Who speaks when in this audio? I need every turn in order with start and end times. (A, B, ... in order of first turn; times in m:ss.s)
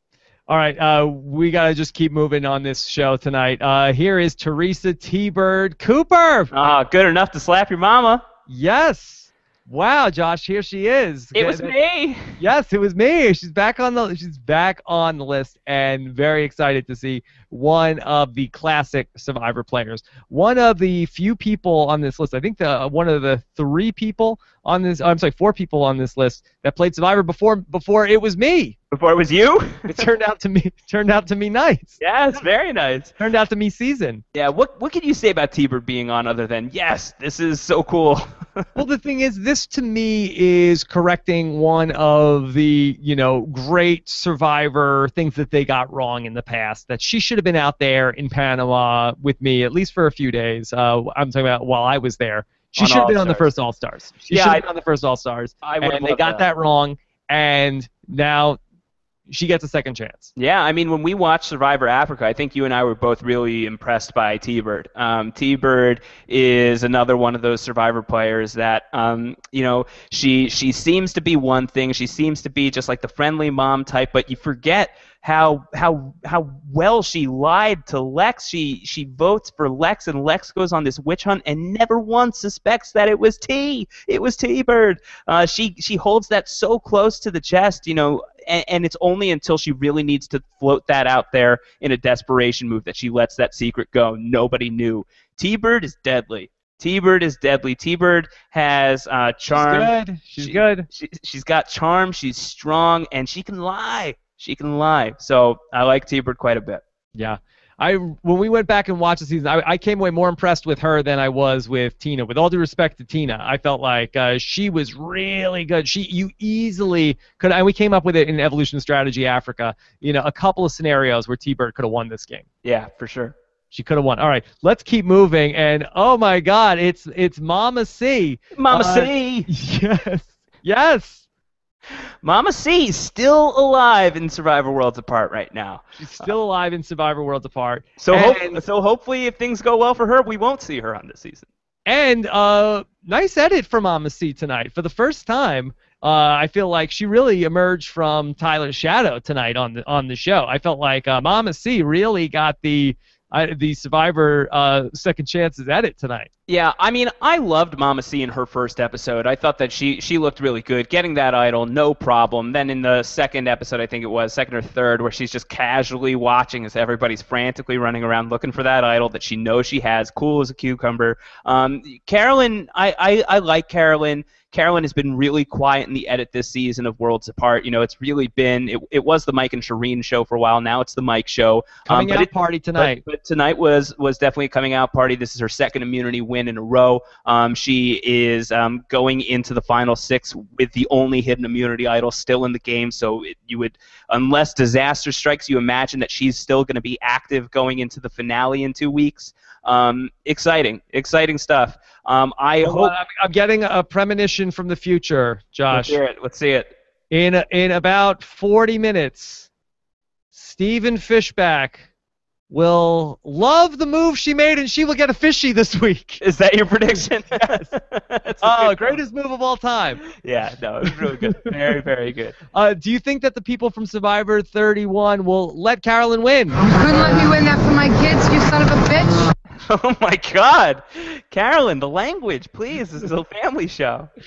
0:00.5-0:06.5 A
0:06.5-0:08.2 B
0:08.5-0:11.7 A
0:11.3-0:12.3 B
0:12.4-0:28.8 A
0:28.9-0:30.0 B
0:29.8-0:32.4 A
0:32.0-0:33.1 B
0:33.2-0:34.2 A
0:34.3-0:38.6 B
0:38.7-0:58.6 A
0:52.8-0:53.5 B
0:54.2-0:54.6 B
0:55.6-0:56.4 B
0:59.3-1:00.3 A
1:00.4-1:46.8 B
1:39.5-1:40.9 A
1:47.1-2:02.4 A
2:02.6-2:03.3 B
2:03.7-2:11.2 A
2:08.5-2:09.5 B
2:12.2-2:16.3 B
2:16.0-2:18.6 A
2:18.0-2:21.4 B
2:21.8-2:36.3 A
2:36.5-3:22.9 B
3:01.8-3:03.0 A
3:22.6-3:26.0 A
3:25.7-3:26.7 B
3:27.1-3:29.5 A
3:30.3-3:31.9 A
3:32.5-3:36.2 A
3:36.2-3:39.0 B
3:37.4-3:37.6 A
3:38.4-3:40.0 A
3:40.0-3:42.4 B
3:42.5-3:46.7 A
3:46.7-3:49.2 C
3:49.6-3:54.1 B